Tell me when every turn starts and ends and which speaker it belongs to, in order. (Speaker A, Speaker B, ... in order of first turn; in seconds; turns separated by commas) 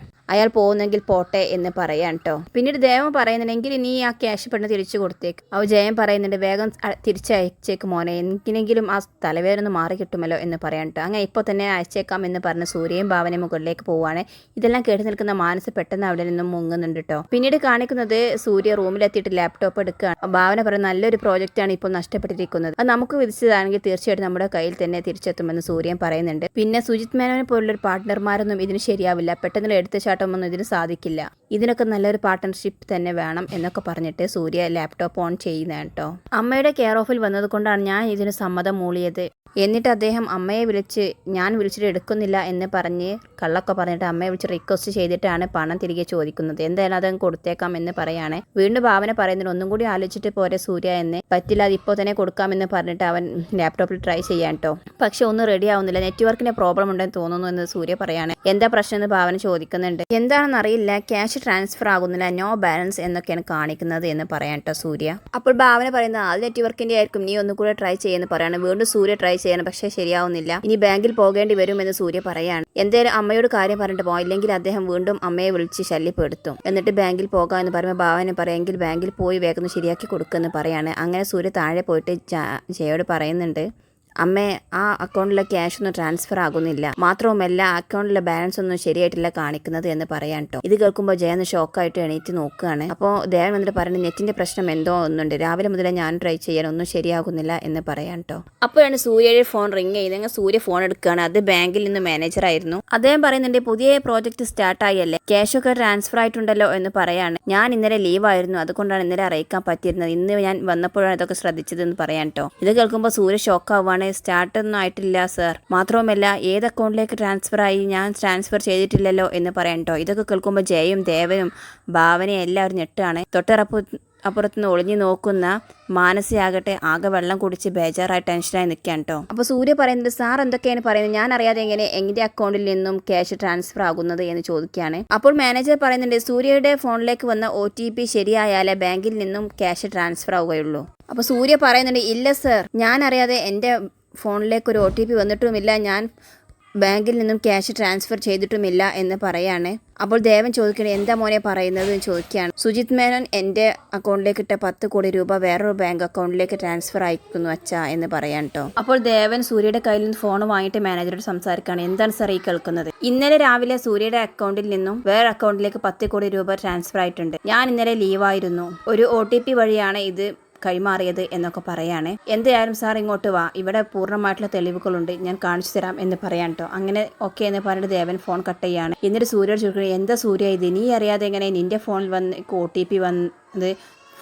Speaker A: 0.3-83.6, Speaker A: 84.2-146.0, Speaker A: 146.8-183.7